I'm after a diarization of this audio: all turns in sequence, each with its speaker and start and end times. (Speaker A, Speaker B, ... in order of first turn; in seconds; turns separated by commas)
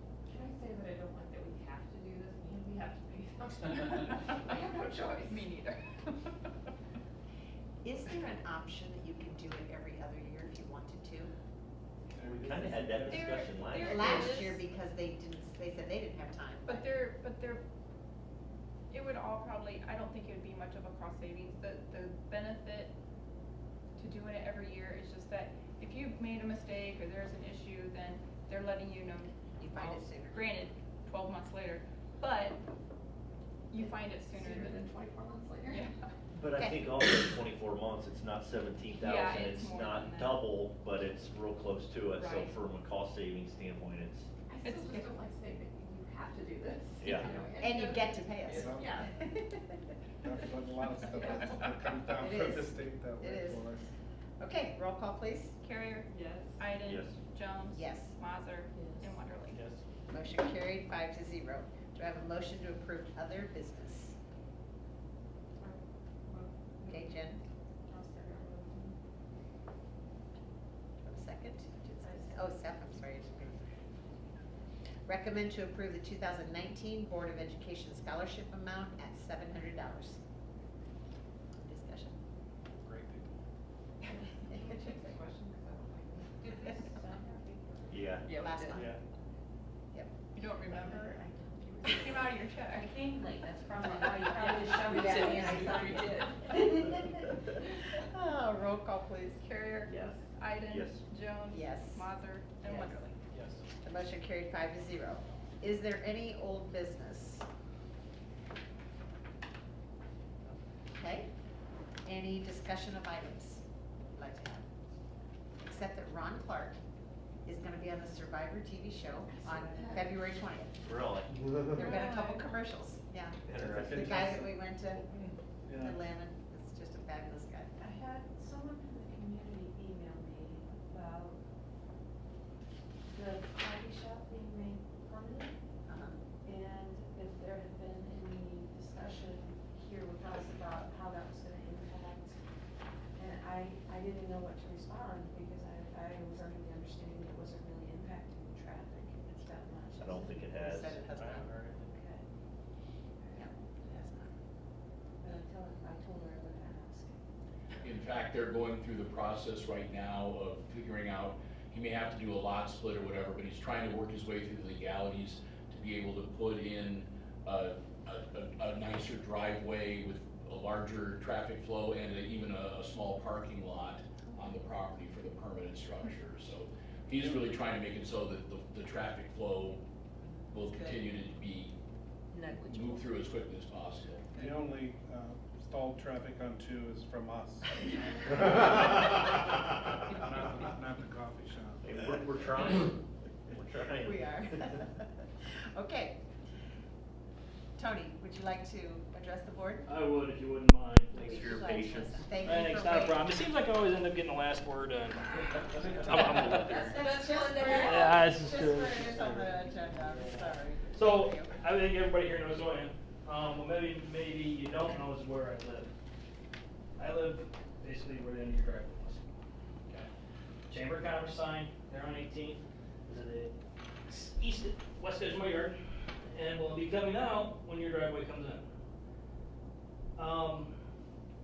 Speaker A: 0.3-5.6, Speaker B: 3.7-4.2, Speaker B: 5.2-6.5, Speaker C: 7.8-11.3, Speaker D: 12.1-13.5, Speaker E: 12.2-14.3, Speaker B: 13.1-14.6, Speaker C: 13.8-16.9, Speaker B: 16.6-17.6, Speaker B: 18.9-22.9, Speaker B: 23.9-32.6, Speaker C: 29.6-30.6, Speaker B: 33.7-34.9, Speaker A: 33.7-35.9, Speaker B: 35.6-36.0, Speaker E: 36.4-44.3, Speaker C: 36.5-36.8, Speaker B: 39.0-40.5, Speaker B: 42.2-42.5, Speaker A: 44.5-49.1, Speaker B: 44.6-45.2, Speaker E: 47.0-47.4, Speaker C: 47.4-49.7, Speaker D: 48.5-49.0, Speaker D: 50.2-53.9, Speaker A: 51.1-51.5, Speaker C: 52.1-53.7, Speaker C: 54.4-55.6, Speaker B: 55.6-59.6, Speaker A: 56.1-56.6, Speaker E: 56.8-57.1, Speaker C: 57.7-58.1, Speaker F: 58.7-59.2, Speaker C: 60.1-64.2, Speaker A: 65.6-67.0, Speaker C: 66.8-67.4, Speaker A: 67.9-68.9, Speaker F: 68.0-68.7, Speaker C: 71.0-73.8, Speaker F: 72.0-72.3, Speaker C: 75.1-80.2, Speaker C: 81.6-82.2, Speaker D: 82.7-83.3, Speaker A: 84.3-88.9, Speaker F: 86.5-87.9, Speaker E: 87.9-88.3, Speaker C: 88.3-88.9, Speaker D: 88.7-89.0, Speaker B: 90.3-91.2, Speaker F: 90.8-91.7, Speaker A: 91.7-92.5, Speaker B: 91.8-92.9, Speaker F: 92.7-96.8, Speaker A: 94.0-96.5, Speaker C: 95.0-96.1, Speaker C: 96.6-99.4, Speaker B: 99.4-103.2, Speaker A: 99.9-100.2, Speaker E: 100.7-101.0, Speaker C: 101.5-102.0, Speaker C: 102.6-103.0, Speaker C: 103.8-107.5, Speaker C: 110.9-111.3, Speaker C: 112.0-113.6, Speaker C: 114.2-114.6, Speaker C: 115.6-116.8, Speaker C: 117.5-120.7, Speaker E: 120.8-121.9, Speaker C: 121.7-125.1, Speaker B: 121.8-122.4, Speaker E: 123.5-124.3, Speaker D: 123.5-126.0, Speaker C: 125.7-127.7, Speaker F: 127.8-131.4, Speaker F: 133.1-135.5, Speaker C: 135.9-136.2, Speaker F: 136.4-142.3, Speaker F: 143.2-151.2, Speaker E: 150.0-150.9, Speaker C: 150.6-151.6, Speaker F: 151.8-152.2, Speaker F: 153.2-153.7, Speaker C: 153.3-154.3, Speaker F: 155.2-157.1, Speaker G: 157.8-179.8, Speaker C: 180.2-181.0, Speaker G: 180.5-181.7, Speaker F: 182.3-183.2, Speaker G: 182.7-184.2, Speaker D: 184.3-187.7, Speaker D: 188.2-189.0, Speaker D: 190.1-191.9, Speaker E: 191.8-194.5, Speaker C: 194.0-196.2, Speaker C: 197.8-199.9, Speaker H: 199.8-201.7, Speaker E: 201.1-202.3, Speaker C: 201.2-203.3, Speaker H: 202.4-206.9, Speaker E: 206.2-206.7, Speaker C: 206.7-211.5, Speaker A: 206.9-208.1, Speaker H: 207.7-215.9, Speaker H: 217.0-219.3, Speaker H: 220.7-223.5, Speaker H: 224.1-225.8, Speaker H: 226.3-228.7, Speaker H: 230.2-230.7